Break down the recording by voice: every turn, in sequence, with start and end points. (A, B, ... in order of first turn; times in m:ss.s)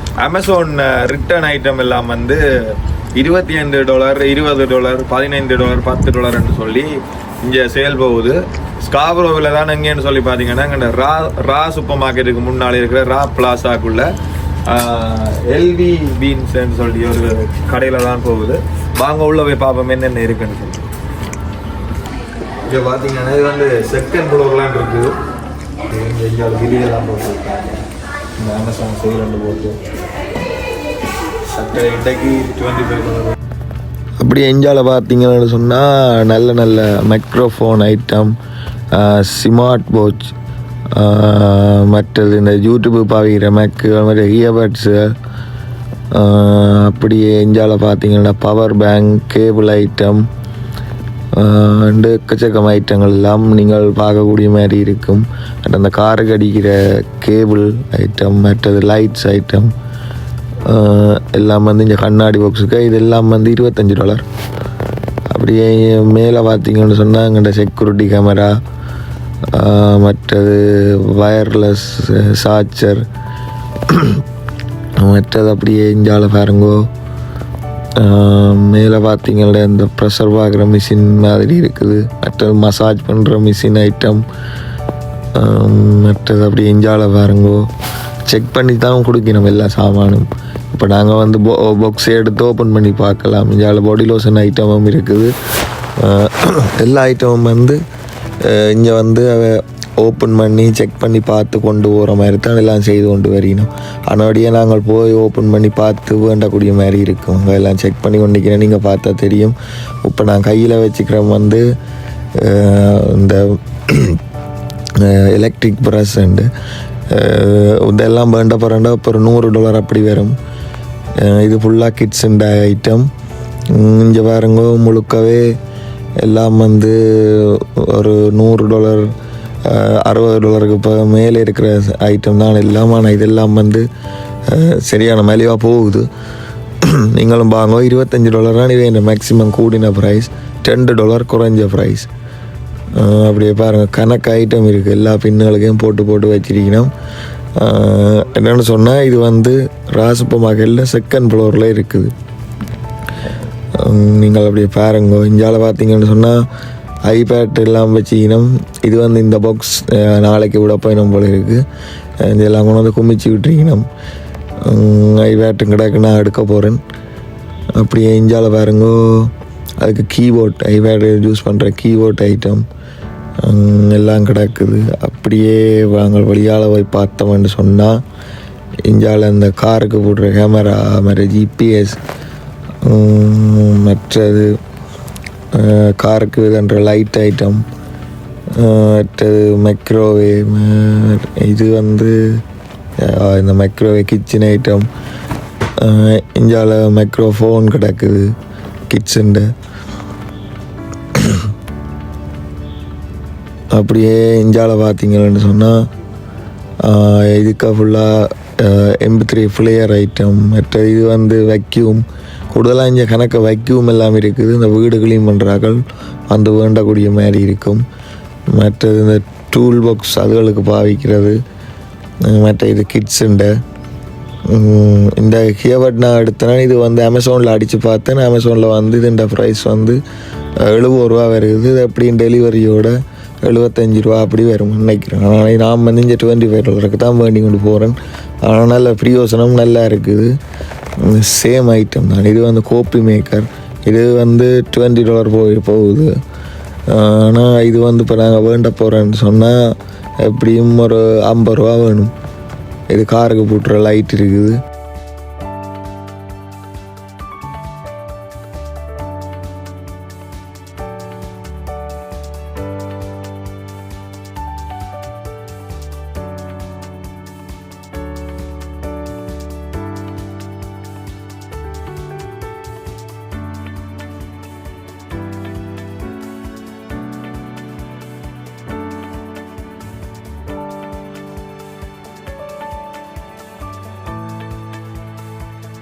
0:00.2-0:02.4 A
0:03.2-0:14.1 A
0:14.7-0:20.9 A
0:22.6-0:25.2 A
0:25.9-0:27.8 A
0:28.4-0:29.8 A
0:31.5-0:33.4 A
0:34.2-0:38.4 A
0:38.9-0:40.4 A
0:40.9-0:45.2 A
0:46.1-0:50.3 A
0:51.4-0:59.7 A
1:00.6-1:04.3 A
1:05.3-1:08.6 A
1:09.5-1:13.1 A
1:13.8-1:14.2 A
1:15.0-1:16.9 A
1:18.0-1:24.2 A
1:25.3-1:27.7 A
1:28.3-1:35.3 A
1:36.0-1:37.8 A
1:38.4-1:51.6 A
1:52.4-1:54.2 A
1:54.9-1:56.5 A
1:57.1-2:00.4 A
2:01.2-2:03.1 A
2:03.7-2:05.6 A
2:06.2-2:13.9 A
2:14.5-2:16.1 A
2:16.8-2:22.1 A
2:23.0-2:26.9 A
2:27.6-2:32.1 A
2:33.7-2:36.4 A
2:37.1-2:41.6 A
2:42.2-2:43.9 A
2:44.6-2:46.8 A
2:47.8-2:52.7 A
2:53.4-2:58.0 A
2:58.9-3:02.0 A
3:02.8-3:04.6 A
3:05.5-3:07.6 A
3:08.5-3:12.4 A
3:13.0-3:14.9 A
3:15.8-3:18.4 A
3:18.9-3:19.5 A
3:21.1-3:21.5 A
3:23.7-3:25.8 A
3:26.8-3:37.8 A
3:38.5-3:41.4 A
3:42.2-3:43.6 A
3:44.5-3:50.0 A
3:50.6-4:00.3 A
4:01.0-4:06.2 A
4:06.9-4:12.1 A
4:12.9-4:14.6 A